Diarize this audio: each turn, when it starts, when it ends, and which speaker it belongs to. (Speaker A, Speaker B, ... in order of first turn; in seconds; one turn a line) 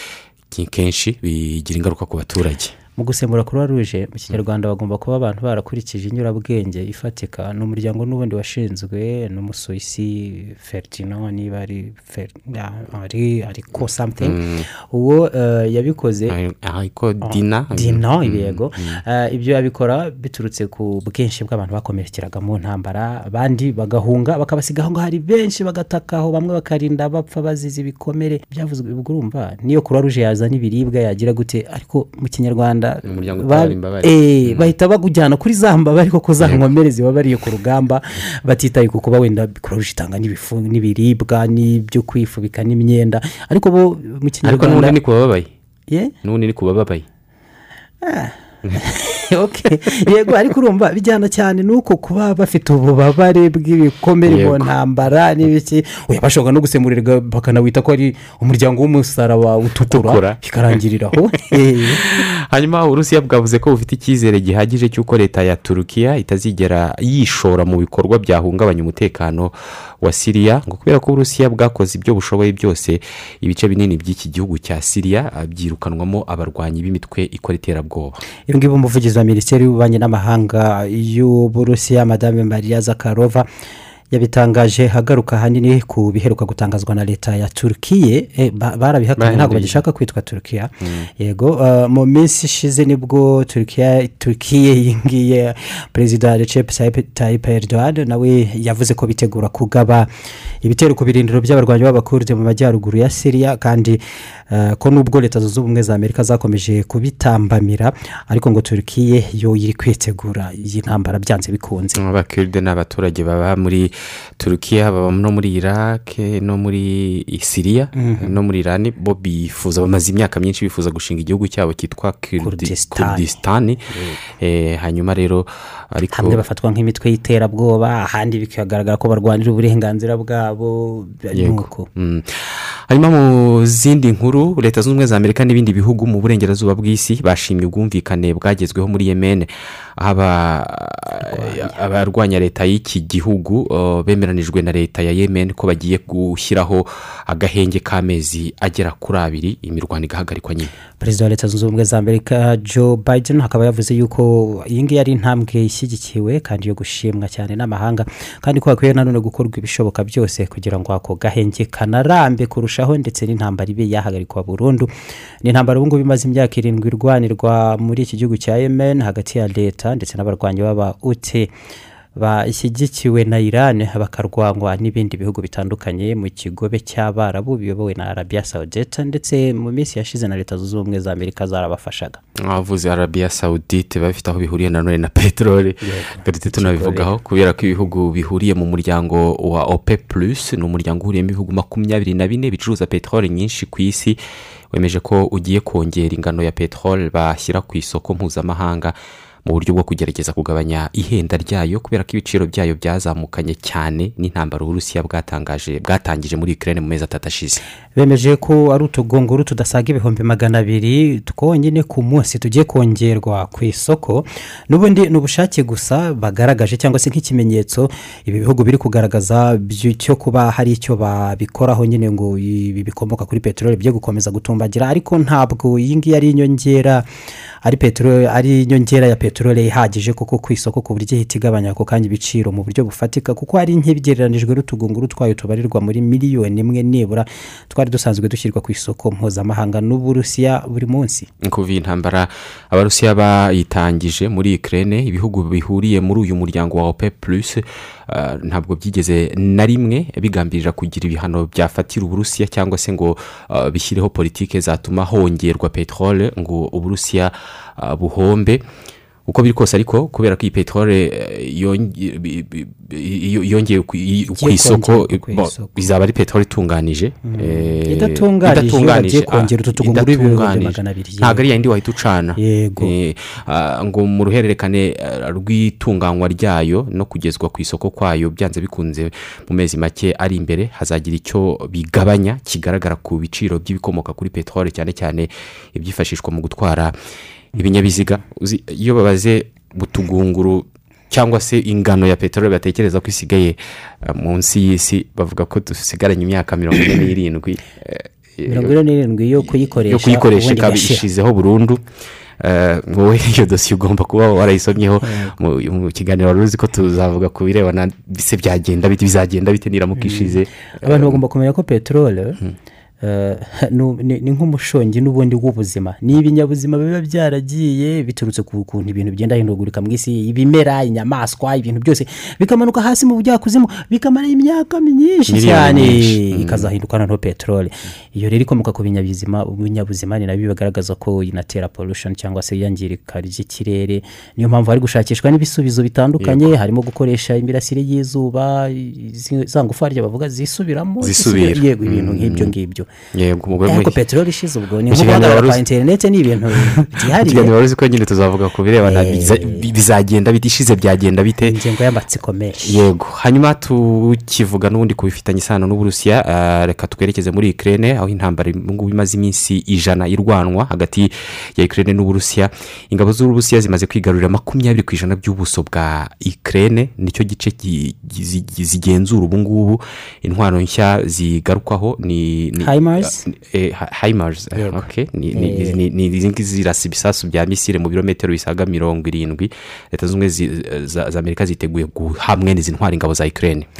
Speaker A: 0.5-2.7
Speaker B: 3.0-14.4
Speaker A: 13.8-14.7
Speaker B: 14.9-16.4
Speaker A: 16.3-19.0
Speaker B: 17.2-45.0
Speaker A: 33.0-34.7
Speaker A: 36.4-36.6
Speaker A: 44.4-45.5
Speaker A: 46.2-47.0
Speaker B: 48.0-62.0
Speaker A: 54.2-54.7
Speaker A: 59.9-60.4
Speaker A: 62.1-78.2
Speaker B: 78.5-83.5
Speaker B: 84.1-100.1
Speaker A: 89.2-89.8
Speaker A: 90.8-91.1
Speaker B: 100.6-104.0
Speaker B: 104.5-112.0
Speaker A: 112.0-126.4
Speaker B: 118.0-118.3
Speaker B: 122.4-123.2
Speaker B: 126.1-131.9
Speaker A: 131.3-150.7
Speaker B: 141.3-141.7
Speaker B: 151.0-164.9
Speaker B: 165.4-171.5
Speaker B: 172.2-182.2
Speaker A: 182.5-194.2
Speaker B: 185.8-187.1
Speaker A: 194.7-207.6
Speaker B: 207.9-227.1
Speaker B: 227.6-241.3
Speaker A: 241.4-258.6
Speaker A: 259.3-286.9
Speaker B: 264.4-265.8
Speaker B: 267.2-271.4
Speaker B: 272.4-272.9
Speaker A: 287.6-298.8
Speaker B: 298.5-301.1
Speaker A: 299.4-301.8
Speaker A: 302.4-311.2
Speaker B: 305.1-305.3
Speaker B: 310.0-312.4
Speaker B: 313.0-342.9
Speaker A: 325.3-326.7
Speaker A: 336.2-336.5
Speaker A: 341.0-342.5
Speaker A: 343.2-344.0
Speaker B: 343.6-347.5
Speaker A: 344.9-345.6
Speaker A: 346.5-351.6
Speaker B: 348.8-349.6
Speaker B: 351.4-352.8
Speaker A: 352.6-383.7
Speaker B: 372.6-373.2
Speaker B: 374.6-375.8